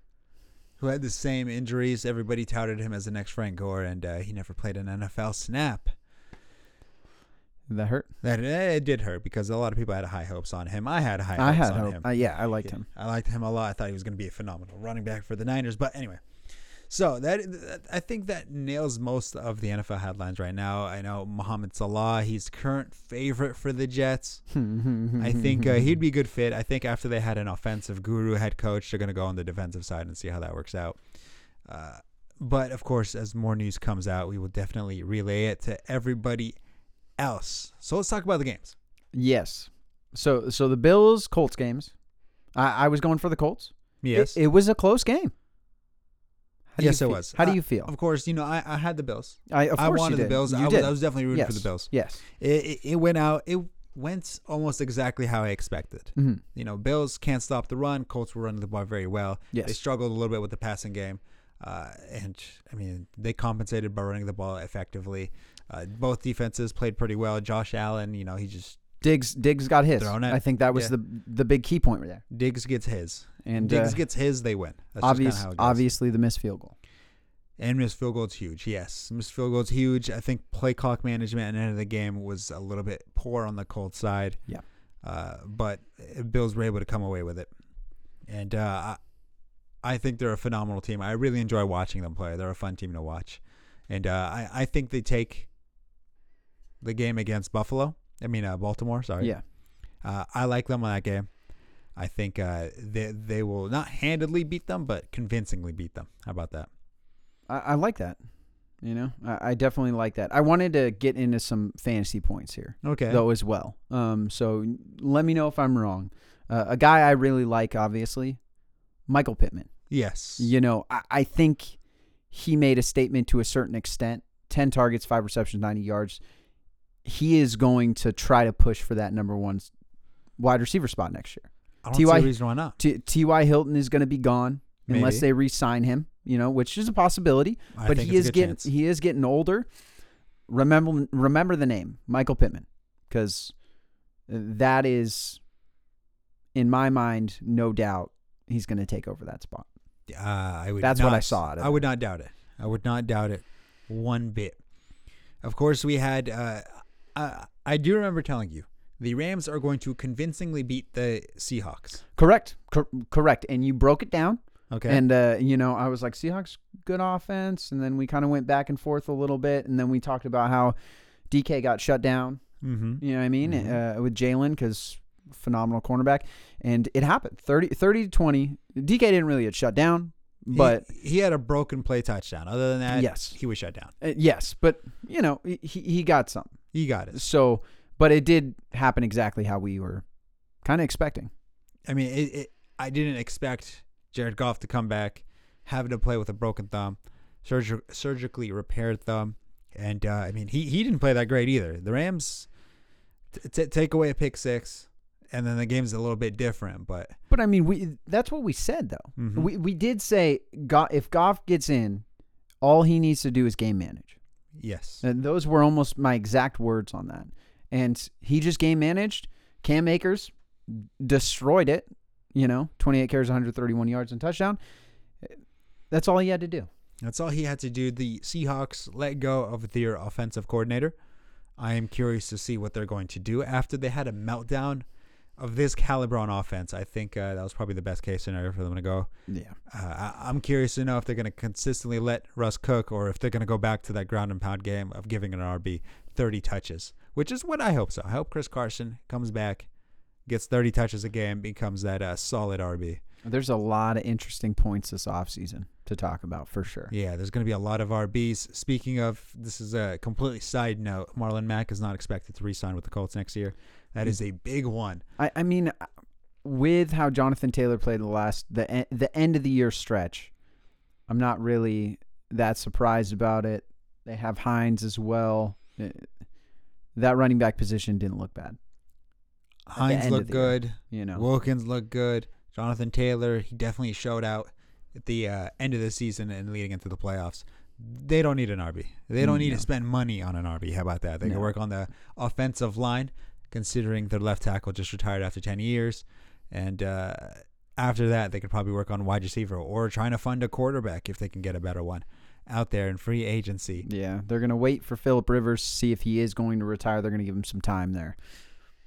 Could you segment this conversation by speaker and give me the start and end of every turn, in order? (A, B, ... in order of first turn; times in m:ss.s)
0:00.8-0:05.9 A
0:07.7-0:08.1 B
0:08.2-0:12.1 A
0:11.4-0:12.8 B
0:12.6-0:24.4 A
0:24.5-0:26.0 B
0:25.2-0:31.0 A
0:31.6-0:36.6 A
0:37.2-0:38.7 A
0:39.1-0:41.9 B
0:42.5-0:45.3 B
0:44.0-0:44.4 A
0:46.7-0:47.9 B
0:46.8-1:08.8 A
0:49.5-0:52.2 B
0:56.2-0:56.4 B
1:09.0-1:12.2 B
1:10.0-1:10.9 A
1:12.3-1:15.9 A
1:13.4-1:14.0 B
1:15.0-1:16.7 B
1:17.6-1:24.4 A
1:25.0-1:27.5 A
1:28.2-1:29.0 A
1:29.8-1:35.5 A
1:36.8-1:39.3 A
1:40.0-1:41.3 A
1:42.0-1:46.7 A
1:47.5-1:48.2 B
1:48.8-1:58.4 B
1:52.8-1:53.2 A
1:59.1-1:59.7 B
1:59.9-2:00.5 A
2:00.4-2:01.8 B
2:02.3-2:06.2 B
2:07.0-2:09.7 B
2:10.4-2:19.7 B
2:11.8-2:12.8 A
2:14.9-2:15.2 A
2:17.7-2:18.7 A
2:20.5-2:23.5 B
2:24.3-2:25.4 B
2:26.5-2:29.7 B
2:30.1-2:34.6 A
2:30.8-2:31.8 B
2:35.4-2:42.0 A
2:42.2-2:50.8 B
2:44.7-2:45.0 A
2:51.3-2:52.4 B
2:52.6-2:53.8 A
2:53.0-3:00.8 B
3:00.5-3:03.9 A
3:02.9-3:03.4 B
3:04.0-3:06.6 B
3:06.7-3:07.2 A
3:07.1-3:10.0 B
3:10.6-3:11.3 B
3:11.8-3:22.5 A
3:23.3-3:27.2 A
3:27.3-3:32.0 B
3:29.2-3:29.5 A
3:32.6-3:34.2 B
3:34.5-3:35.0 A
3:35.0-3:44.6 B
3:45.9-3:46.7 B
3:47.0-3:50.9 A
3:51.6-3:54.8 A
3:55.4-3:59.1 A
3:59.3-3:59.5 B
3:59.7-4:09.7 A
4:10.3-4:13.0 A
4:13.2-4:16.9 B
4:16.9-4:25.0 A
4:25.2-4:25.9 B
4:26.4-4:30.3 B
4:31.1-4:36.1 B
4:37.0-4:38.6 B
4:39.7-5:03.8 A
4:39.8-4:41.2 B
4:49.2-4:49.6 B
4:51.2-4:51.5 B
5:03.8-5:08.2 B